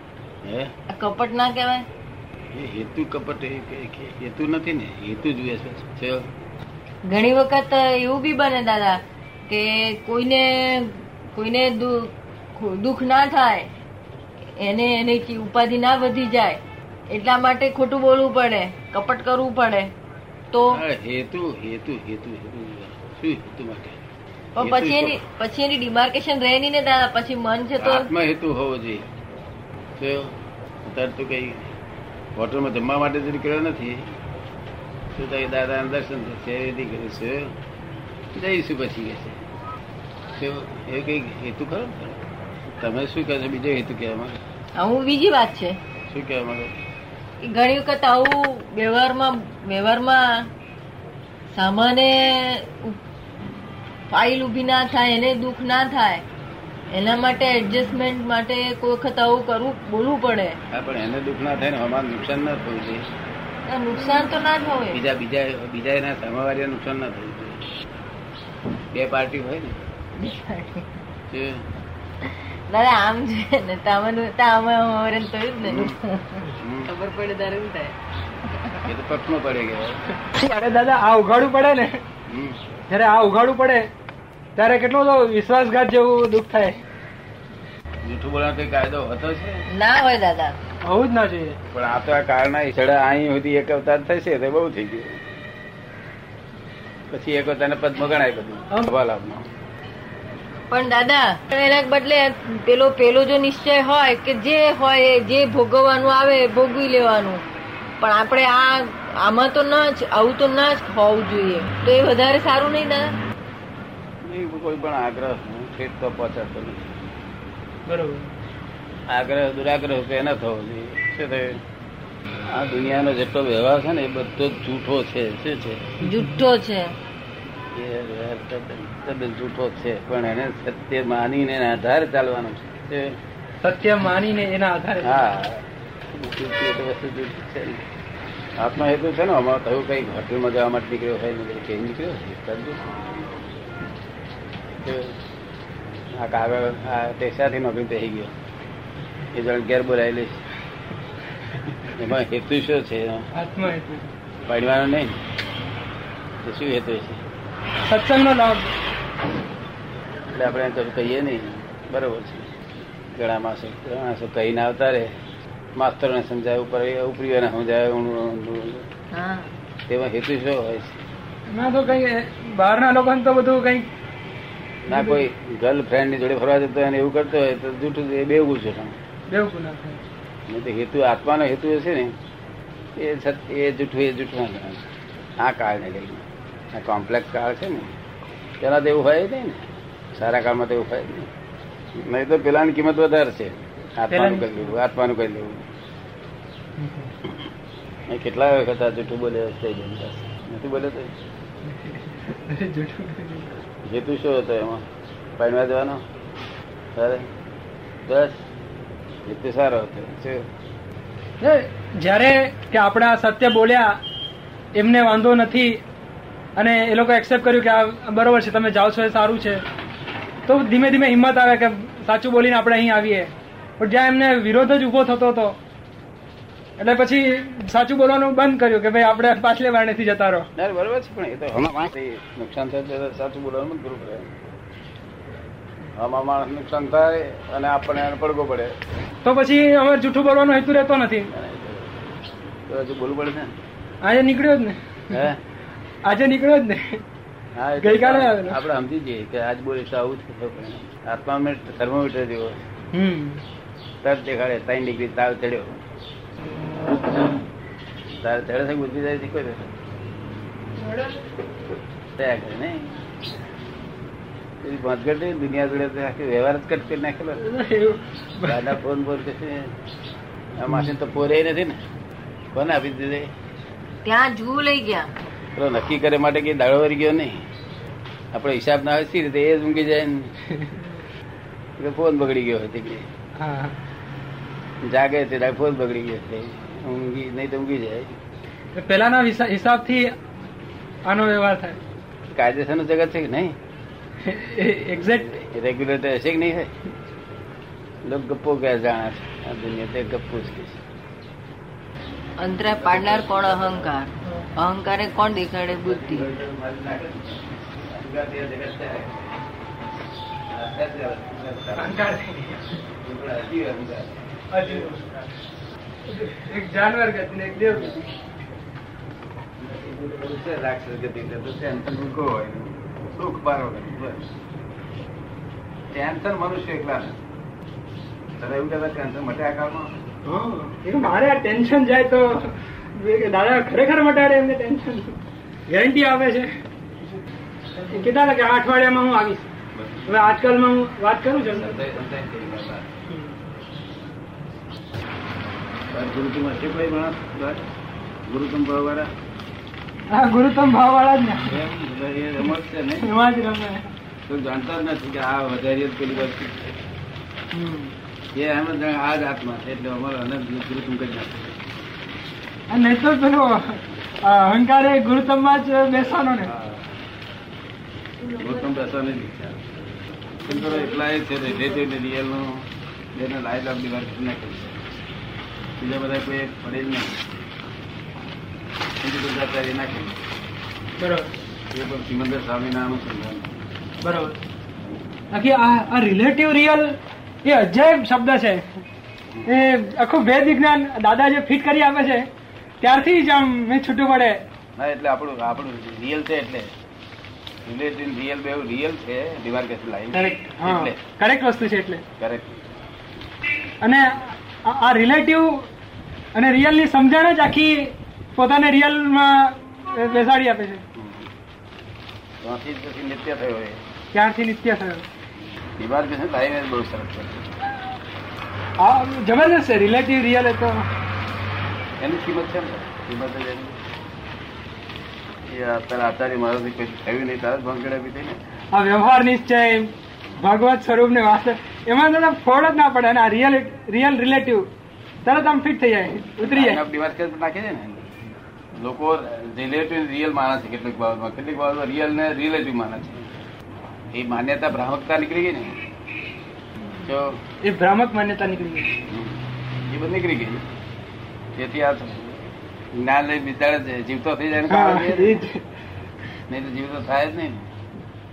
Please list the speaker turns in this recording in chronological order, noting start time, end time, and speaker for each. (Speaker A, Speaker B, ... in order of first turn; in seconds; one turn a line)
Speaker A: 0.4-0.7
Speaker B: 0.9-1.9
Speaker A: 2.5-6.3
Speaker B: 7.1-13.7
Speaker B: 14.6-16.6
Speaker B: 17.1-19.9
Speaker B: 20.5-20.8
Speaker A: 20.7-24.0
Speaker B: 24.6-28.1
Speaker A: 24.6-25.2
Speaker A: 27.8-29.1
Speaker A: 30.0-31.7
Speaker A: 32.4-34.1
Speaker A: 35.2-37.5
Speaker A: 38.3-39.5
Speaker A: 40.4-42.2
Speaker A: 42.7-44.4
Speaker B: 44.8-45.8
Speaker A: 46.1-46.8
Speaker B: 47.4-50.4
Speaker B: 51.5-53.0
Speaker B: 54.1-56.2
Speaker B: 56.9-60.6
Speaker A: 60.7-63.0
Speaker B: 63.7-65.0
Speaker A: 64.9-67.6
Speaker A: 68.9-69.8
Speaker B: 70.2-70.9
Speaker A: 71.3-71.7
Speaker B: 72.2-78.0
Speaker A: 75.7-76.0
Speaker A: 76.6-76.9
Speaker B: 78.5-78.8
Speaker A: 78.8-80.0
Speaker C: 80.2-82.0
Speaker A: 82.3-82.6
Speaker C: 82.9-83.9
Speaker C: 84.6-86.8
Speaker A: 88.0-89.7
Speaker B: 89.7-90.5
Speaker C: 90.8-91.6
Speaker A: 91.7-95.2
Speaker A: 97.1-99.5
Speaker B: 100.7-107.4
Speaker B: 108.0-113.1
Speaker A: 114.2-117.0
Speaker C: 117.9-118.3
Speaker A: 119.1-121.6
Speaker A: 122.5-125.9
Speaker B: 126.0-126.9
Speaker A: 127.7-133.2
Speaker C: 133.6-135.2
Speaker A: 135.0-137.8
Speaker A: 138.6-142.8
Speaker A: 144.8-145.2
Speaker A: 146.2-148.3
Speaker A: 149.3-150.4
Speaker A: 152.0-153.3
Speaker C: 153.3-154.1
Speaker A: 154.5-155.2
Speaker A: 156.4-157.2
Speaker C: 157.9-158.7
Speaker A: 160.3-162.5
Speaker A: 163.2-165.2
Speaker A: 165.8-168.9
Speaker B: 169.1-169.5
Speaker A: 169.9-171.0
Speaker C: 171.5-173.9
Speaker A: 174.9-179.0
Speaker C: 174.9-175.2
Speaker C: 179.3-180.0
Speaker A: 180.5-182.2
Speaker A: 183.0-184.9
Speaker A: 185.4-187.9
Speaker A: 188.6-191.3
Speaker A: 192.0-195.7
Speaker C: 194.1-194.8
Speaker C: 196.8-197.1
Speaker A: 198.1-201.1
Speaker C: 201.7-203.5
Speaker A: 203.8-204.9
Speaker A: 205.4-206.0
Speaker A: 207.0-207.3
Speaker A: 208.1-208.4
Speaker A: 209.2-210.5
Speaker C: 211.4-214.0
Speaker C: 214.7-215.8
Speaker C: 216.6-219.6
Speaker C: 220.5-225.6
Speaker C: 226.8-230.5
Speaker A: 230.6-234.4
Speaker A: 235.9-238.8
Speaker C: 239.2-241.3
Speaker A: 241.3-241.9
Speaker A: 242.7-243.5
Speaker C: 244.0-245.3
Speaker A: 245.1-245.4
Speaker C: 246.1-247.0
Speaker A: 247.6-252.6
Speaker C: 247.8-248.6
Speaker C: 252.9-253.4
Speaker A: 254.0-255.8
Speaker A: 258.2-259.7
Speaker C: 260.8-261.2
Speaker A: 262.2-262.9
Speaker A: 264.6-267.4
Speaker C: 267.4-268.8
Speaker A: 268.4-269.8
Speaker A: 270.6-271.8
Speaker A: 272.5-273.3
Speaker B: 274.1-275.1
Speaker A: 275.6-277.4
Speaker A: 278.3-280.3
Speaker A: 281.8-283.1
Speaker C: 283.4-283.8
Speaker A: 284.8-288.2
Speaker C: 288.8-290.1
Speaker C: 291.1-291.8
Speaker A: 292.3-293.6
Speaker C: 294.2-295.3
Speaker A: 295.0-296.7
Speaker A: 298.0-300.8
Speaker B: 302.4-306.3
Speaker A: 302.5-303.9
Speaker A: 305.7-309.3
Speaker A: 310.5-312.0
Speaker C: 311.8-312.8
Speaker A: 313.0-315.3
Speaker C: 314.5-315.1
Speaker C: 316.1-318.1
Speaker A: 319.6-324.3
Speaker A: 325.9-327.2
Speaker A: 328.4-330.0
Speaker C: 330.2-335.2
Speaker C: 335.7-336.5
Speaker C: 337.9-339.5
Speaker A: 339.8-340.4
Speaker C: 340.1-341.8
Speaker A: 341.4-343.0
Speaker C: 343.1-343.4
Speaker A: 345.9-347.7
Speaker A: 348.2-349.1
Speaker C: 350.1-351.6
Speaker A: 351.4-353.1
Speaker C: 353.0-353.9
Speaker A: 354.2-356.8
Speaker C: 357.5-357.9
Speaker A: 358.3-361.6
Speaker C: 362.7-366.5
Speaker A: 366.4-366.9
Speaker A: 368.3-369.6
Speaker A: 370.4-375.0
Speaker A: 375.8-377.3
Speaker A: 379.0-380.2
Speaker C: 381.0-381.3
Speaker A: 381.7-383.6
Speaker C: 384.0-384.4
Speaker C: 385.3-388.7
Speaker C: 389.4-392.3
Speaker C: 392.8-394.4
Speaker A: 394.8-396.7
Speaker A: 397.6-401.0
Speaker C: 400.1-402.0
Speaker A: 402.2-402.6
Speaker C: 403.8-405.7
Speaker C: 406.4-410.8
Speaker A: 410.9-411.3
Speaker A: 412.4-413.9
Speaker C: 414.1-415.0
Speaker A: 415.8-417.5
Speaker C: 418.8-420.9
Speaker A: 422.0-423.8
Speaker A: 425.5-428.4
Speaker C: 428.7-434.7
Speaker C: 435.2-436.8
Speaker A: 436.4-438.2
Speaker A: 438.7-443.4
Speaker A: 444.1-445.8
Speaker A: 447.0-447.4
Speaker C: 447.6-449.0
Speaker A: 449.1-450.6
Speaker A: 451.6-455.4
Speaker C: 454.7-455.6
Speaker A: 456.5-457.7